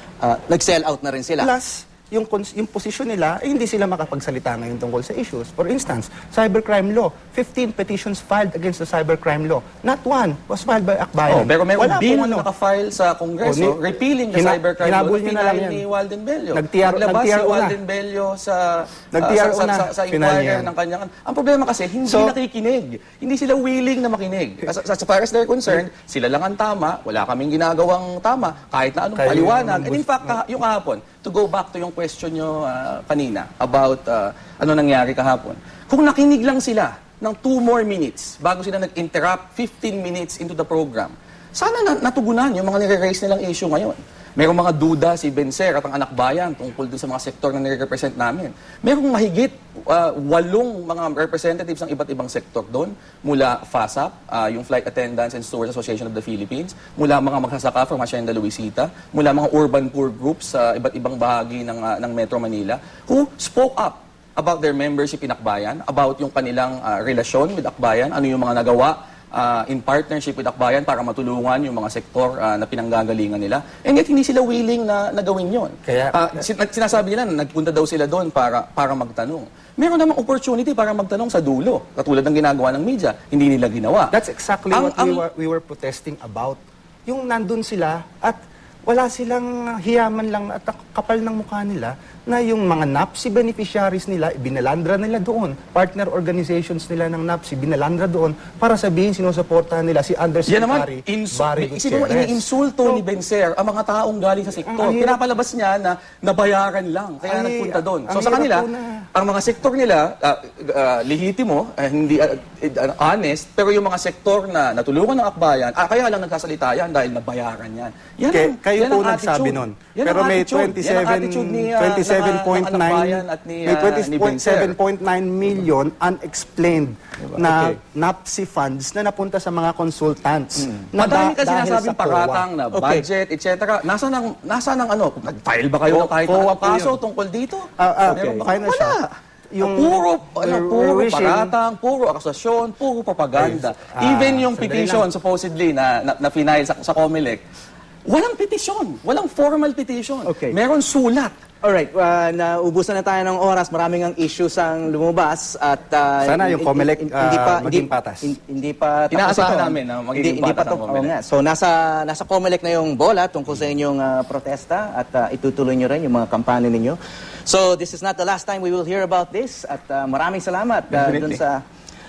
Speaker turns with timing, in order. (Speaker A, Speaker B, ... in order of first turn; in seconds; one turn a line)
Speaker A: 0.2-1.5
Speaker B: 1.4-12.5
Speaker C: 11.3-84.1
Speaker B: 13.4-13.8
Speaker B: 14.3-15.8
Speaker B: 16.5-17.8
Speaker B: 19.1-20.7
Speaker B: 22.0-22.4
Speaker B: 29.1-30.4
Speaker B: 75.8-76.2
Speaker B: 84.1-103.0
Speaker C: 84.7-85.2
Speaker C: 100.5-124.8
Speaker B: 104.5-105.2
Speaker B: 107.2-109.1
Speaker B: 118.3-132.4
Speaker C: 127.3-127.7
Speaker C: 130.9-139.1
Speaker A: 132.7-133.1
Speaker B: 135.9-137.0
Speaker B: 137.8-139.0
Speaker B: 139.5-141.5
Speaker C: 139.6-147.4
Speaker B: 143.3-145.1
Speaker C: 148.1-151.3
Speaker A: 150.2-150.6
Speaker A: 151.6-171.6
Speaker B: 156.2-158.3
Speaker C: 159.1-161.1
Speaker C: 170.9-171.4